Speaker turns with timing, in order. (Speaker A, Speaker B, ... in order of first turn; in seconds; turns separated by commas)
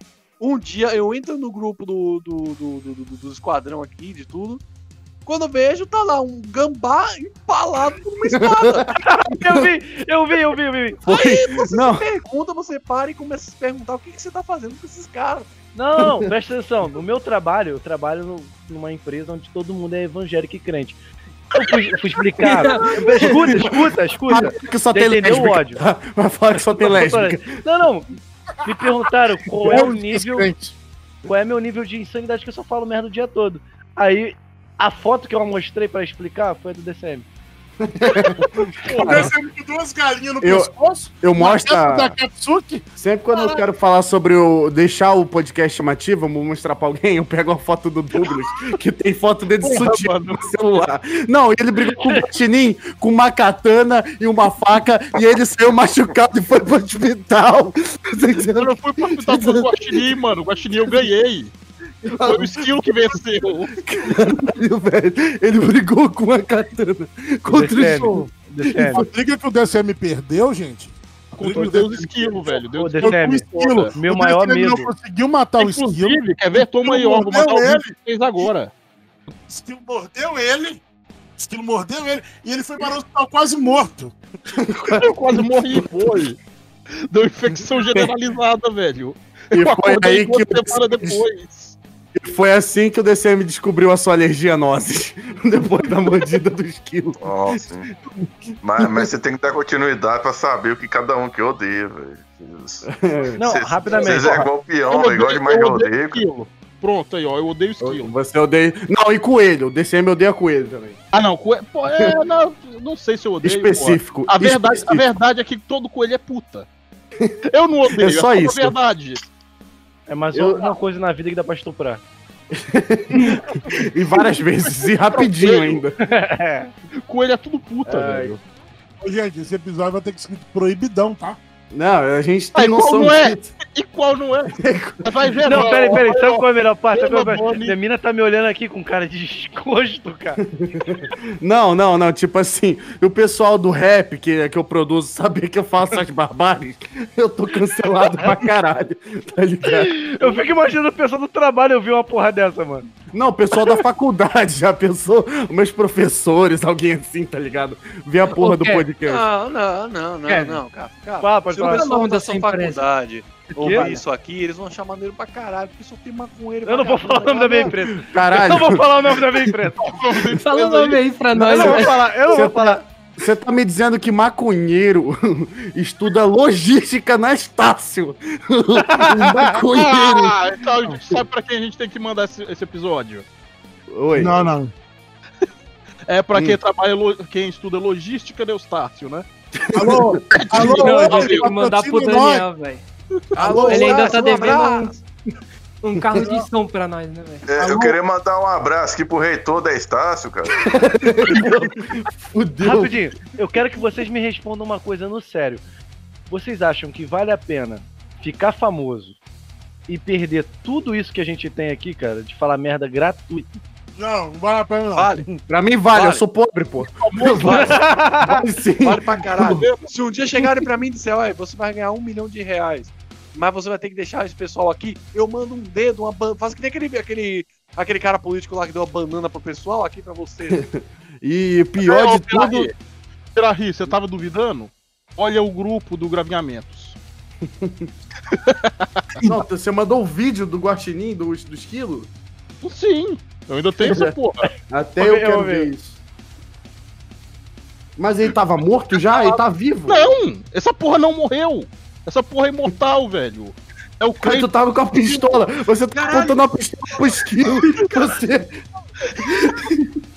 Speaker A: 0.4-4.6, Speaker A: 5.2-8.9, Speaker B: 8.3-9.7, Speaker C: 9.0-11.0, Speaker B: 11.1-12.1, Speaker A: 11.1-15.5, Speaker C: 15.7-21.0, Speaker B: 16.0-16.2, Speaker C: 21.5-25.8, Speaker D: 22.4-23.5, Speaker E: 22.8-23.9, Speaker B: 24.2-27.5, Speaker C: 26.8-28.1, Speaker C: 28.6-30.5, Speaker E: 29.6-30.7, Speaker C: 31.2-37.2, Speaker B: 37.8-39.3, Speaker E: 38.0-43.6, Speaker F: 38.8-39.3, Speaker B: 40.4-42.1, Speaker B: 43.0-60.0, Speaker F: 49.6-50.5, Speaker F: 58.4-61.5, Speaker B: 62.0-62.9, Speaker F: 62.2-63.8, Speaker B: 63.8-69.1, Speaker C: 67.5-69.0, Speaker E: 68.9-78.5, Speaker F: 71.4-73.9, Speaker C: 72.8-74.9, Speaker F: 75.6-78.7, Speaker E: 79.5-80.8, Speaker E: 81.4-84.2, Speaker B: 84.6-85.9, Speaker F: 84.9-86.4, Speaker F: 87.1-91.8, Speaker B: 89.5-91.2, Speaker B: 92.1-97.6, Speaker G: 97.2-97.9, Speaker G: 98.6-106.2, Speaker B: 98.8-99.1, Speaker B: 102.8-103.4, Speaker C: 103.4-104.5, Speaker F: 103.9-104.3, Speaker F: 104.9-108.1, Speaker B: 107.8-111.0, Speaker F: 111.1-116.7, Speaker B: 113.4-115.0, Speaker F: 117.5-119.2, Speaker B: 117.9-118.8, Speaker C: 120.1-122.0, Speaker B: 120.3-120.7, Speaker B: 122.5-126.0, Speaker F: 125.2-125.8, Speaker C: 126.0-126.7, Speaker F: 126.9-128.4, Speaker B: 127.8-128.4, Speaker E: 129.0-131.4, Speaker B: 131.7-133.5, Speaker F: 132.5-137.8, Speaker B: 134.6-135.7, Speaker C: 135.4-140.4, Speaker B: 140.4-149.9, Speaker C: 149.7-152.9, Speaker F: 150.2-150.6, Speaker B: 153.1-159.2, Speaker D: 158.3-158.8, Speaker A: 159.1-167.8, Speaker D: 160.3-160.6, Speaker C: 161.2-161.8, Speaker D: 161.5-162.8, Speaker C: 163.6-164.0, Speaker B: 163.7-163.9, Speaker C: 166.6-170.0, Speaker B: 168.0-169.5, Speaker F: 169.8-171.9, Speaker D: 170.4-172.4, Speaker C: 171.3-172.8, Speaker B: 172.3-180.4, Speaker C: 178.9-179.3, Speaker F: 179.7-183.2, Speaker B: 183.9-184.4, Speaker E: 184.1-184.7, Speaker F: 186.1-189.3, Speaker B: 186.3-186.6, Speaker B: 189.7-190.2, Speaker E: 189.7-192.4, Speaker F: 190.3-191.5, Speaker D: 190.6-192.8, Speaker E: 193.4-194.5, Speaker A: 193.4-195.0, Speaker D: 193.6-195.0, Speaker D: 195.8-197.4, Speaker B: 196.0-196.3, Speaker E: 196.1-196.5, Speaker G: 197.4-200.6, Speaker E: 197.6-197.9, Speaker B: 200.7-203.1, Speaker E: 201.2-201.9, Speaker C: 202.6-205.6, Speaker C: 206.3-209.2, Speaker C: 209.9-213.5, Speaker E: 214.0-215.4, Speaker A: 214.9-215.2, Speaker B: 215.5-219.6, Speaker A: 215.9-216.2, Speaker F: 217.0-217.7, Speaker A: 217.4-217.8, Speaker C: 217.5-218.4, Speaker A: 218.8-230.6, Speaker F: 219.6-219.9, Speaker B: 230.5-232.7, Speaker F: 231.8-232.7, Speaker F: 233.3-237.0, Speaker B: 237.5-237.9, Speaker F: 238.3-238.6, Speaker B: 239.2-242.1, Speaker F: 242.6-244.5, Speaker B: 243.8-244.1, Speaker B: 244.7-246.0, Speaker C: 245.0-245.7, Speaker B: 248.0-250.1, Speaker F: 248.9-255.2, Speaker B: 254.2-258.6, Speaker B: 259.2-260.0